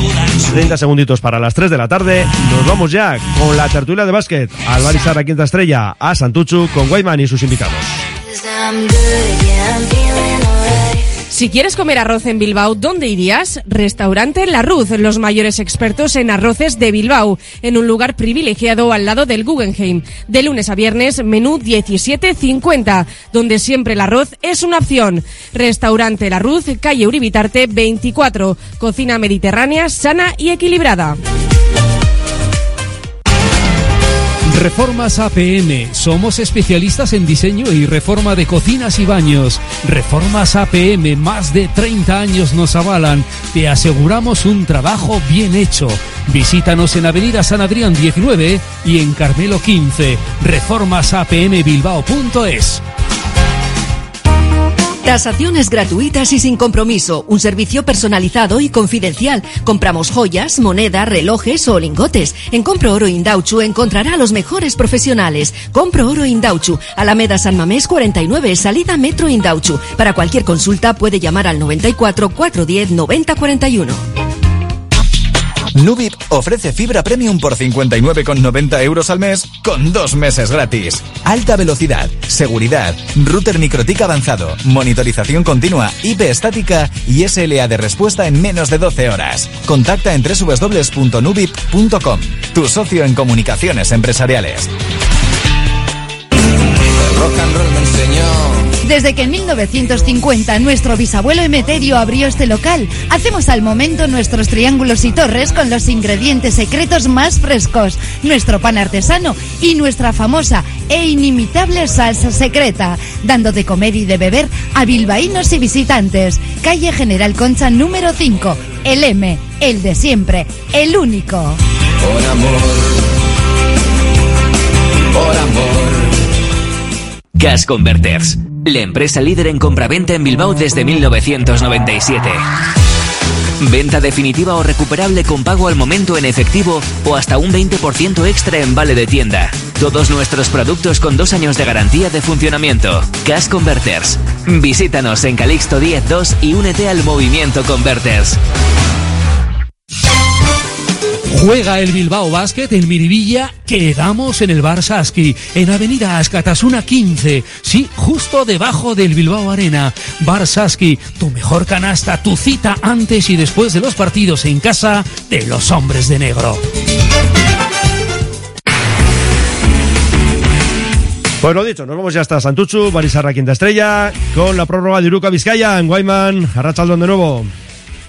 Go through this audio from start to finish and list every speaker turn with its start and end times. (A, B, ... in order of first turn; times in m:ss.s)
0:00.4-0:08.0 A
0:11.3-0:31.2 B
0:34.5-0:52.8 C
0:55.0-1:14.0 D
1:15.7-1:34.7 E
1:37.0-1:38.7 F
1:38.8-2:01.6 G
2:02.0-2:03.0 F
2:05.1-2:06.2 F
2:07.4-2:12.4 H
2:13.6-2:28.4 H
2:31.3-2:46.6 C
2:51.4-2:57.5 A